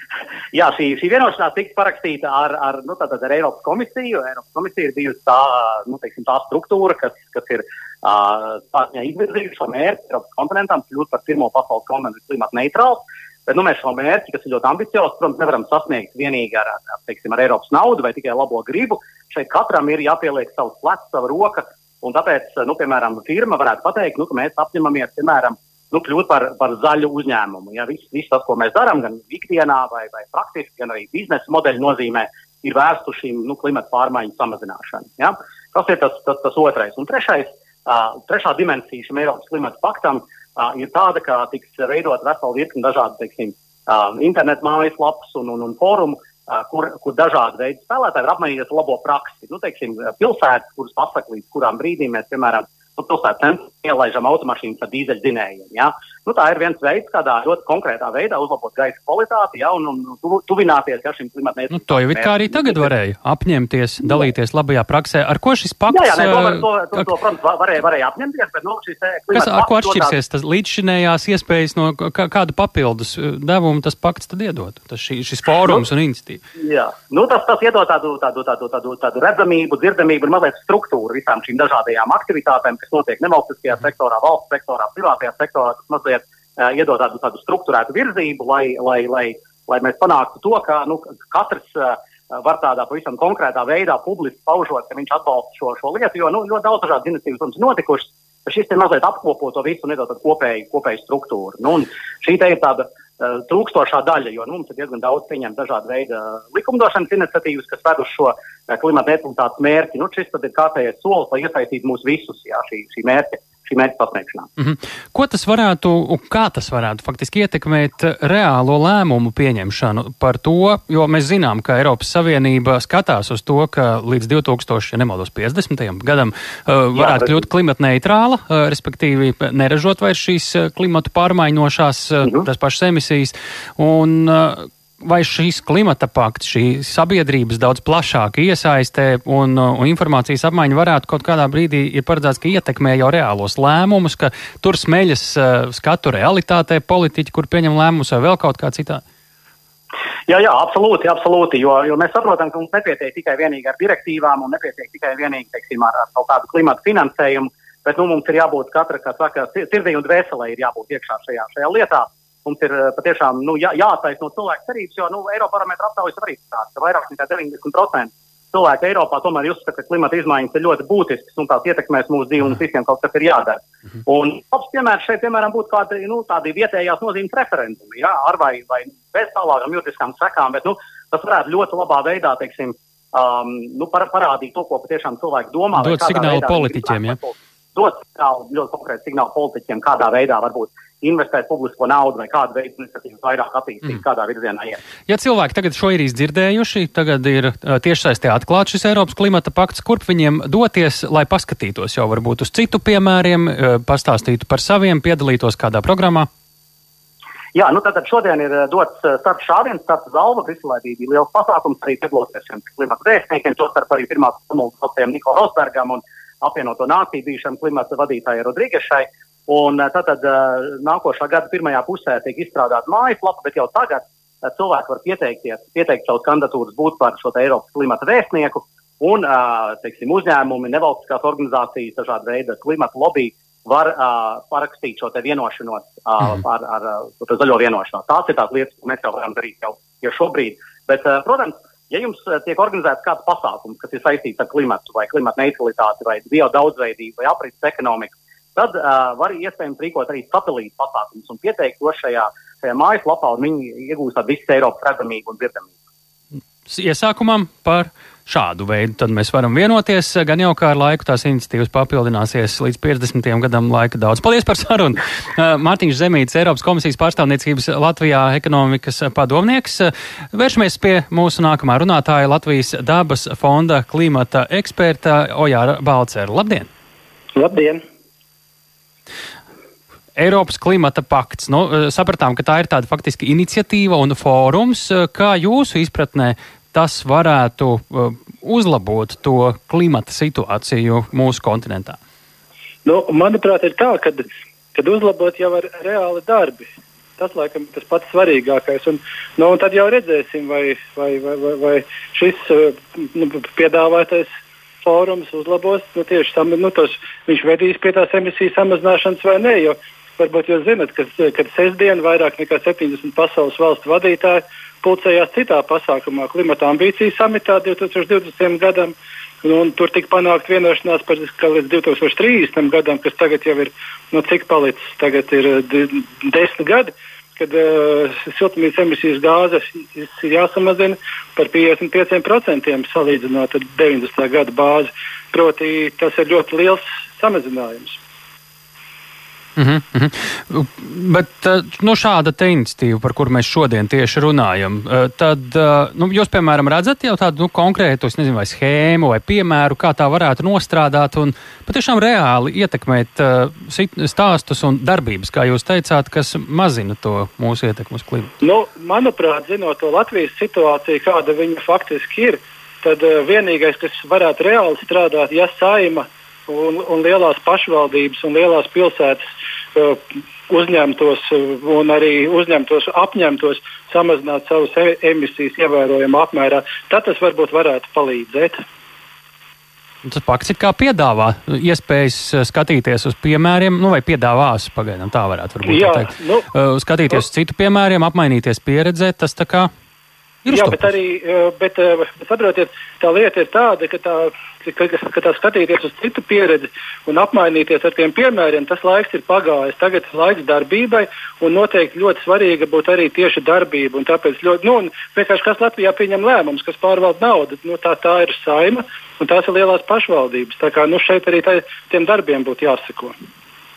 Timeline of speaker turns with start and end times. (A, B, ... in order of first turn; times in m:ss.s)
0:00.5-1:02.9 A
1:01.7-1:06.7 B
1:04.0-1:04.3 A
1:05.9-1:10.2 A
1:09.3-1:16.4 B
1:16.6-1:54.5 A
1:54.6-2:29.0 B
2:07.0-2:07.4 A
2:30.3-3:14.8 A
3:05.8-3:07.2 B
3:15.1-3:26.3 B
3:27.5-4:15.7 A
4:16.7-4:36.7 B
4:37.4-4:37.8 C
4:40.2-4:52.0 B
4:52.8-4:54.2 C
4:54.7-5:04.3 C
5:04.8-5:38.0 C
5:39.6-5:58.3 B
5:58.4-6:18.6 C
6:20.0-6:29.7 B
6:25.6-6:26.5 C
6:30.4-6:30.9 B
6:30.5-6:53.2 C